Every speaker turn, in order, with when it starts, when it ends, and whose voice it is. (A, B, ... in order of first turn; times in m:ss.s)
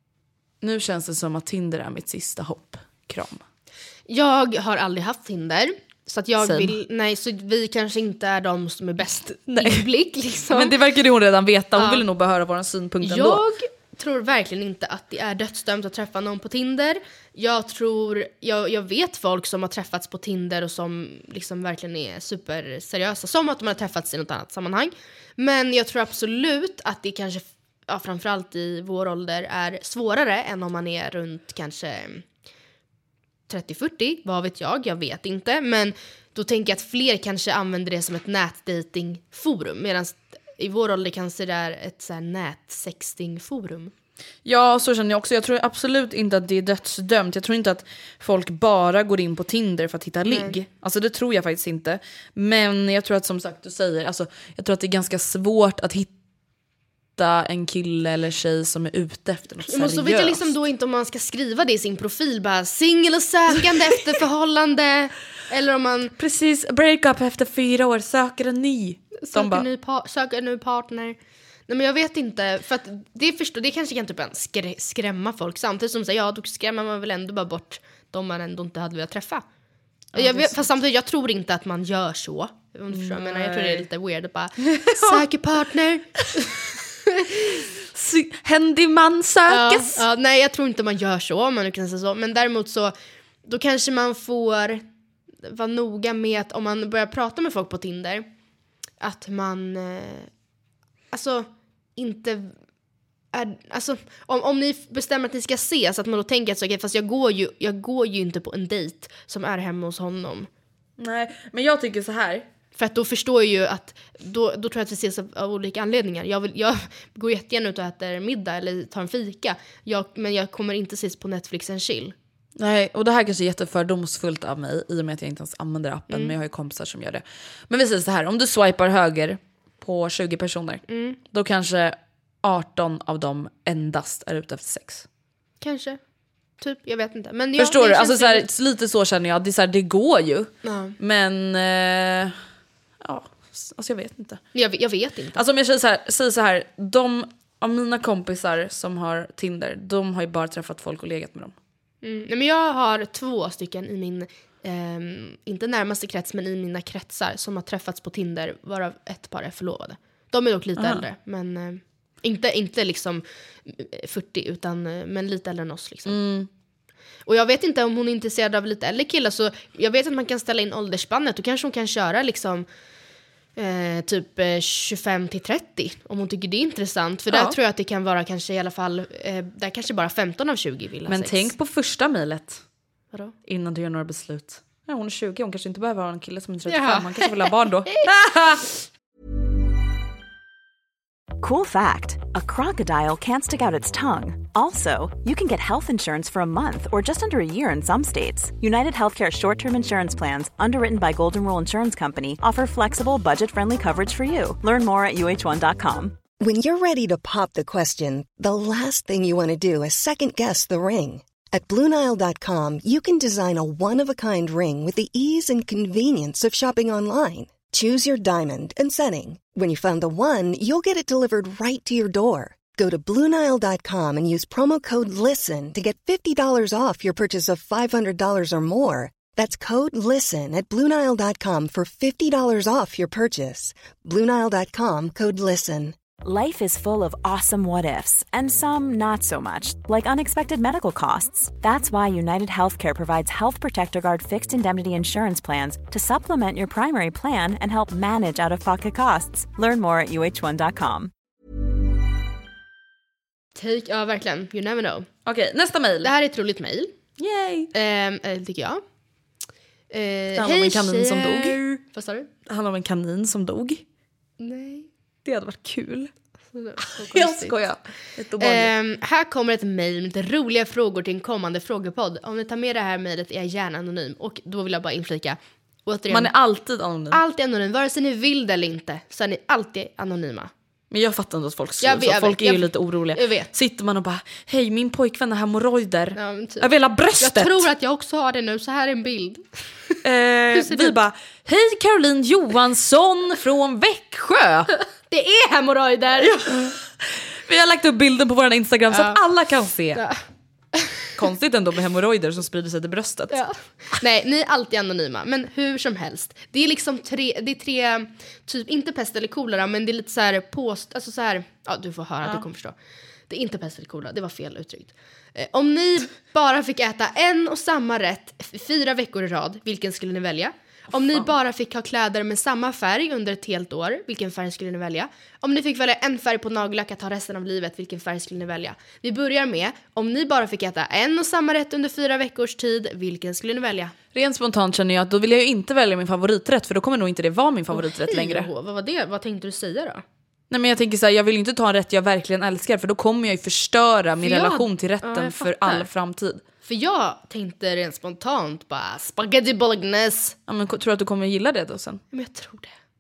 0:00.6-0:03.4 A
0:04.1-0:10.7 B
0:06.4-0:06.8 A
0:09.5-0:09.8 A
0:10.5-0:13.4 A
0:11.8-0:12.0 B
0:13.0-0:32.2 B
0:33.5-0:43.9 B
0:44.4-0:56.1 A
0:50.3-0:50.6 B
0:57.2-1:00.5 A
0:59.7-1:06.1 B
1:06.2-1:09.6 A
1:09.2-1:11.2 B
1:11.7-1:19.4 B
1:20.1-1:20.6 A
1:20.2-1:27.3 B
1:22.9-1:23.9 A
1:24.6-1:25.2 A
1:27.9-1:30.0 A
1:29.5-1:34.8 B
1:35.4-1:38.3 B
1:39.0-1:40.3 B
1:41.1-1:42.5 B
1:43.3-1:50.5 B
1:51.0-1:52.5 A
1:52.8-2:02.2 B
2:02.6-2:15.0 A
2:10.9-2:11.2 B
2:15.6-2:16.0 B
2:16.6-2:18.5 B
2:17.6-2:22.4 A
2:20.6-2:21.0 B
2:23.0-2:24.5 A
2:24.5-2:25.4 B
2:25.4-2:31.5 A
2:32.0-2:46.2 B
2:40.8-2:41.0 A
2:46.1-2:46.5 A
2:47.3-2:52.7 B
2:53.6-3:01.5 B
3:01.1-3:02.6 A
3:03.5-3:08.7 A
3:06.7-3:08.0 B
3:11.4-3:26.2 C
3:26.4-3:56.0 D
3:56.2-4:11.1 C
4:13.6-4:15.1 B
4:15.3-4:16.1 A
4:16.0-4:16.9 B
4:17.2-4:17.7 A
4:17.7-4:18.8 B
4:19.9-4:22.3 B
4:20.4-4:21.8 A
4:22.5-4:23.8 A
4:24.4-4:24.9 B
4:25.2-4:26.1 A
4:26.5-4:27.6 B
4:26.8-4:28.7 A
4:28.4-4:36.3 B
4:36.1-4:37.2 A
4:37.1-4:40.5 B
4:40.9-4:47.7 A
4:41.8-4:43.5 B
4:46.2-4:50.0 B
4:50.0-4:54.7 A
4:50.6-4:51.0 B
4:55.1-4:56.7 B
4:56.2-5:00.0 A
4:58.9-4:59.2 B
5:00.0-5:00.2 B
5:01.2-5:03.7 A
5:03.3-5:12.8 B
5:13.3-5:33.9 B
5:34.1-5:38.5 A
5:37.7-5:40.0 B
5:40.5-5:46.4 A
5:44.2-5:45.9 B
5:46.6-5:50.4 B
5:50.5-5:52.0 A
5:52.1-5:52.8 B